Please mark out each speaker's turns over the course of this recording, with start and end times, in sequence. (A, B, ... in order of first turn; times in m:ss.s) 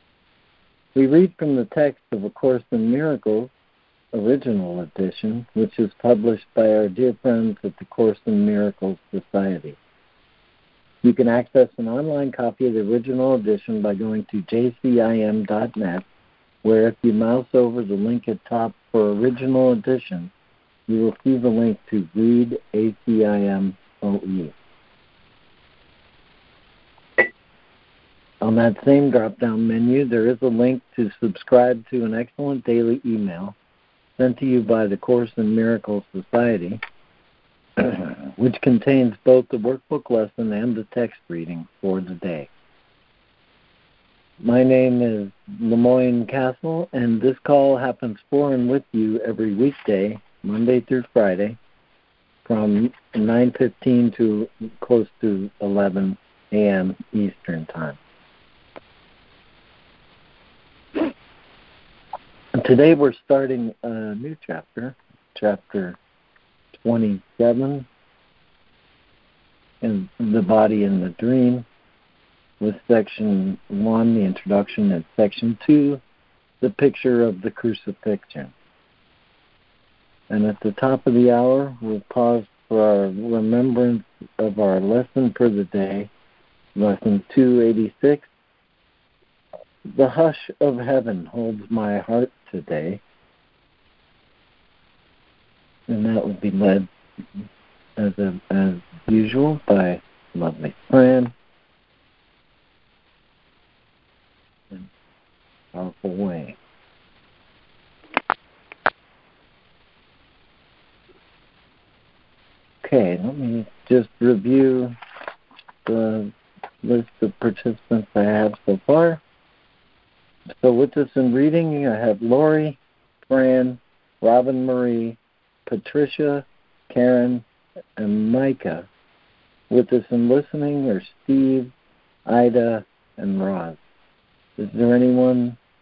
0:01.0-0:03.5 A
0:04.1-0:09.8 A
0:11.0-0:16.0 A
0:16.6-0:20.3 A
0:20.9-0:24.6 A
0:28.4-0:33.6 A
0:34.2-0:36.8 A
0:37.8-0:42.5 A
0:44.4-0:51.6 A
0:52.4-0:58.0 A
1:02.6-1:06.0 A
1:06.8-1:07.9 A
1:09.8-1:11.7 A
1:12.6-1:16.0 A
1:16.6-1:18.5 A
1:20.3-1:26.1 A
1:26.8-1:28.3 A
1:29.9-1:33.0 A
1:35.9-1:37.5 A
1:38.0-1:41.3 A
1:45.7-1:46.6 A
1:52.8-1:55.0 A
1:55.9-1:59.2 A
2:00.5-2:07.4 A
2:08.0-2:08.9 A
2:09.7-2:11.7 A
2:12.3-2:13.8 A
2:14.6-2:15.6 A